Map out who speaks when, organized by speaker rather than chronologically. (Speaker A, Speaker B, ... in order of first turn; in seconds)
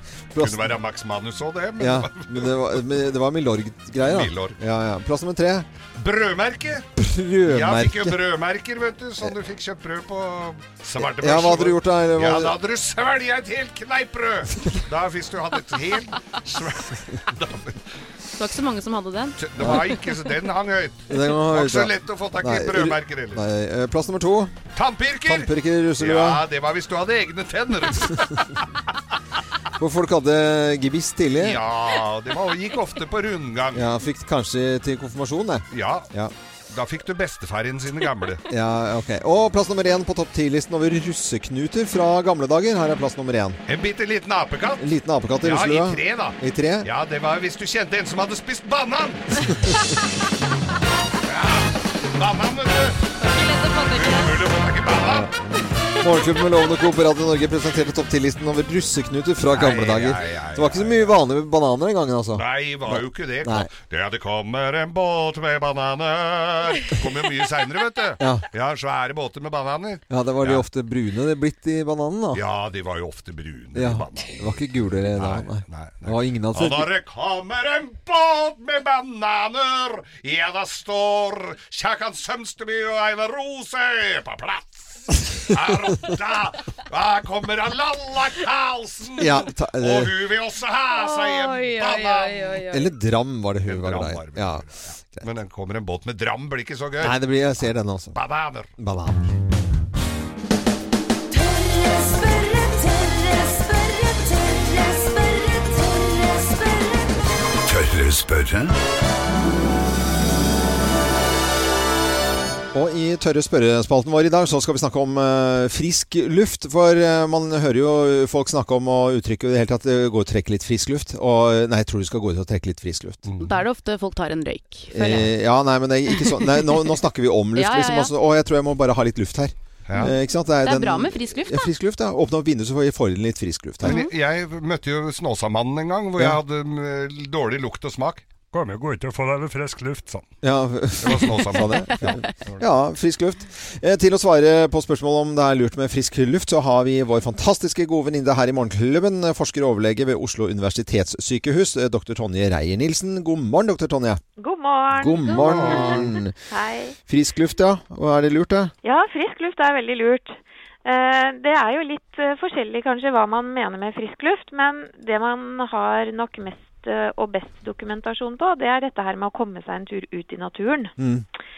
Speaker A: 0.3-0.7, 1.8-5.7, 7.0-8.2, 11.0-12.6, 19.6-19.8, 21.1-24.5, 25.2-26.4, 29.8-31.6, 33.7-36.3, 38.5-43.6, 44.8-46.9, 49.5-49.8, 54.9-63.7, 68.2-68.4, 70.1-72.4, 73.7-76.9, 89.2-90.1, 92.7-95.3, 97.0-98.2, 98.8-99.3, 112.7-123.2, 124.9-134.0, 140.4-154.2, 154.9-156.4, 157.1-158.7, 171.0-171.2
Speaker B: 0.4-2.6, 4.0-4.6, 6.0-6.9, 7.4-17.8, 19.4-23.4, 24.7-28.4, 31.4-33.9, 35.7-36.1, 36.7-38.4, 43.7-44.9, 45.4-49.4, 51.2-53.0, 53.9-55.3, 59.5-61.2, 62.3-70.6, 72.3-74.6, 75.1-92.7, 93.7-97.2, 98.1-98.7, 123.2-123.6, 129.9-130.1, 133.8-140.2, 141.0-142.6, 155.4-156.1
Speaker C: 18.3-20.1, 53.2-54.4, 90.9-92.9, 123.4-125.3, 126.5-126.9, 127.5-128.1, 129.9-131.7, 133.8-134.1
Speaker D: 101.3-107.1
Speaker E: 154.4-156.9, 158.8-170.9